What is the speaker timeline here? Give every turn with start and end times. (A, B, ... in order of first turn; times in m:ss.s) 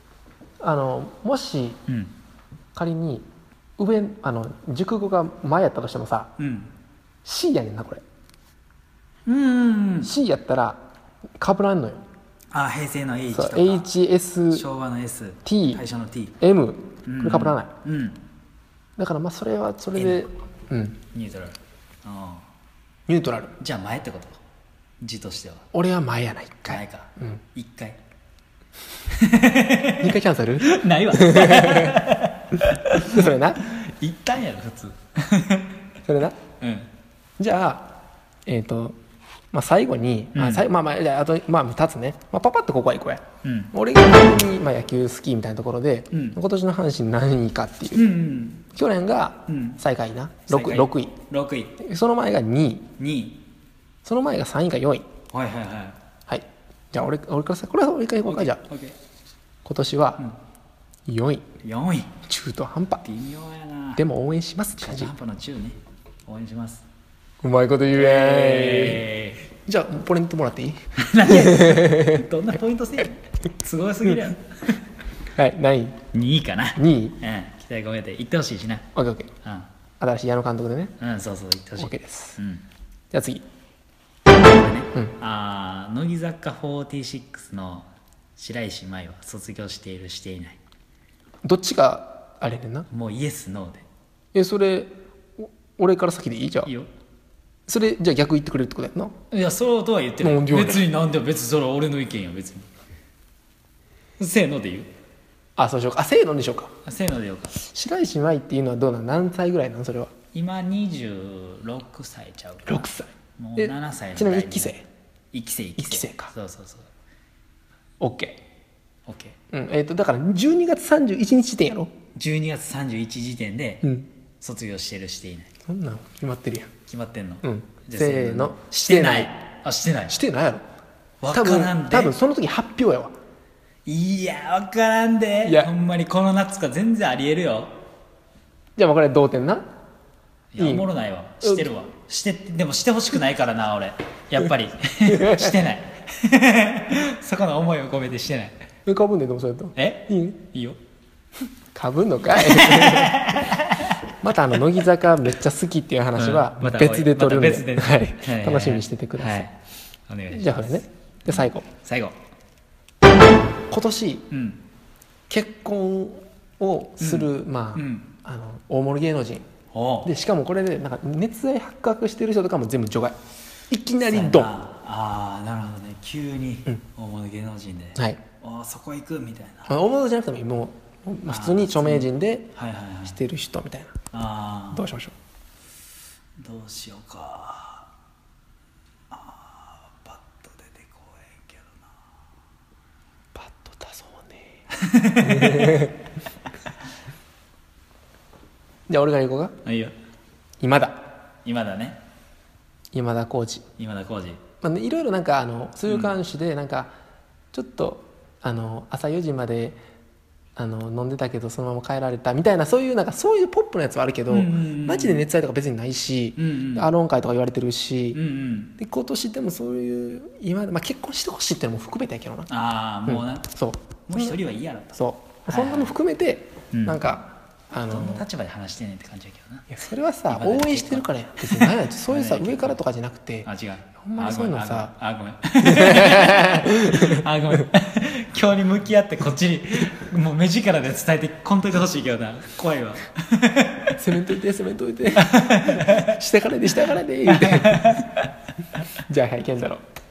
0:00.6-0:01.8 A
0:01.9-0:02.1 B
0:02.8-0:03.3 A
0:03.8-0:06.3 A
0:06.4-0:06.7 B
0:07.2-0:08.0 A
0:09.3-0:10.1 B
0:10.0-0:10.8 A
0:11.4-0:12.0 A
0:12.5-0:13.9 B
0:13.3-0:14.6 A
0:14.5-0:16.4 B
0:15.4-0:15.8 A
0:16.4-0:17.7 A
0:17.0-0:18.2 B
0:19.0-0:21.0 A
0:20.0-0:20.3 B
0:21.1-0:22.5 B
0:23.1-0:23.5 A
0:23.6-0:24.4 B
0:25.0-0:25.7 B
0:25.7-0:27.4 A
0:26.7-0:28.0 B
0:29.1-0:35.8 B
0:30.0-0:32.0 A
0:32.9-0:33.6 A
0:36.1-0:36.4 A
0:36.6-0:36.9 B
0:37.4-0:37.9 A
0:38.5-0:39.0 A
0:39.5-0:48.1 A
0:40.4-0:40.7 B
0:43.4-0:43.7 B
0:46.1-0:46.4 B
0:47.9-0:48.6 B
0:48.7-0:51.1 A
0:49.5-0:49.8 B
0:50.5-0:51.8 B
0:51.8-0:52.9 A
0:53.0-0:53.4 B
0:54.0-0:55.1 A
0:55.3-0:56.0 B
0:56.3-0:58.6 A
0:58.3-0:59.0 B
0:59.6-1:00.2 A
1:01.1-1:01.5 A
1:01.6-1:02.2 B
1:02.2-1:03.0 A
1:03.0-1:04.0 B
1:04.0-1:05.1 A
1:04.8-1:06.8 B
1:07.4-1:12.3 A
1:07.9-1:09.4 B
1:11.0-1:14.8 B
1:15.4-1:16.0 A
1:16.1-1:18.9 B
1:16.8-1:17.2 A
1:19.0-1:19.3 A
1:19.4-1:19.7 B
1:20.0-1:21.0 A
1:21.0-1:22.7 B
1:21.8-1:22.4 A
1:23.1-1:23.5 A
1:24.3-1:30.6 B
1:31.4-1:32.9 A
1:32.9-1:33.8 B
1:34.3-1:36.7 A
1:36.6-1:36.9 B
1:37.7-1:39.2 A
1:39.3-1:42.7 B
1:40.2-1:40.9 A
1:44.2-1:44.9 B
1:45.6-1:46.7 A
1:46.8-1:47.6 B
1:47.6-1:50.1 A
1:50.3-1:54.8 B
1:52.7-1:54.8 A
1:55.3-1:56.9 B
1:55.8-1:56.3 A
1:58.0-1:58.4 A
1:59.1-1:59.4 B
1:59.5-2:01.9 A
2:02.2-2:05.5 B
2:05.7-2:06.7 A
2:06.9-2:10.2 B
2:07.4-2:09.3 A
2:10.1-2:10.7 A
2:11.2-2:12.1 B
2:11.3-2:13.2 A
2:13.9-2:17.8 B
2:15.4-2:15.7 A
2:18.8-2:19.7 A
2:20.5-2:28.6 B
2:20.6-2:20.9 A
2:21.4-2:21.7 A
2:25.0-2:25.6 A
2:28.9-2:30.4 A
2:29.8-2:30.8 B
2:31.7-2:33.6 A
2:32.3-2:34.0 B
2:34.2-2:39.5 A
2:36.2-2:39.6 B
2:40.1-2:40.7 B
2:40.3-2:41.7 A
2:41.3-2:42.2 B
2:43.7-2:44.3 A
2:44.3-2:44.6 B
2:45.3-2:49.5 A
2:47.0-2:48.1 B
2:49.7-2:50.1 B
2:50.0-2:53.2 A
2:53.7-2:54.5 A
2:54.0-2:59.8 B
2:59.7-3:02.5 A
3:01.3-3:03.2 B
3:03.1-3:04.0 A
3:04.1-3:04.8 B
3:04.7-3:05.2 A
3:06.4-3:07.9 B
3:09.1-3:11.9 B
3:13.3-3:14.5 A
3:14.7-3:15.9 B
3:15.2-3:16.0 A
3:18.9-3:19.6 A
3:19.6-3:19.9 B
3:20.6-3:21.1 A
3:21.4-3:22.0 B
3:22.9-3:23.7 A
3:23.8-3:24.4 B
3:24.6-3:26.9 A
3:27.5-3:29.8 A
3:30.6-3:38.2 A
3:34.3-3:35.2 B
3:36.4-3:36.9 B
3:38.1-3:38.7 B
3:38.8-3:42.5 A
3:42.5-3:43.5 B
3:43.1-3:44.4 A
3:44.1-3:46.0 B
3:45.0-3:48.2 A
3:46.7-3:47.0 B
3:47.9-3:49.7 B
3:49.7-3:54.9 A
3:50.3-3:52.8 B
3:53.4-4:04.0 B
3:55.6-3:57.6 A
4:04.0-4:08.0 A
4:05.2-4:06.2 B
4:07.2-4:08.9 B
4:09.0-4:09.8 A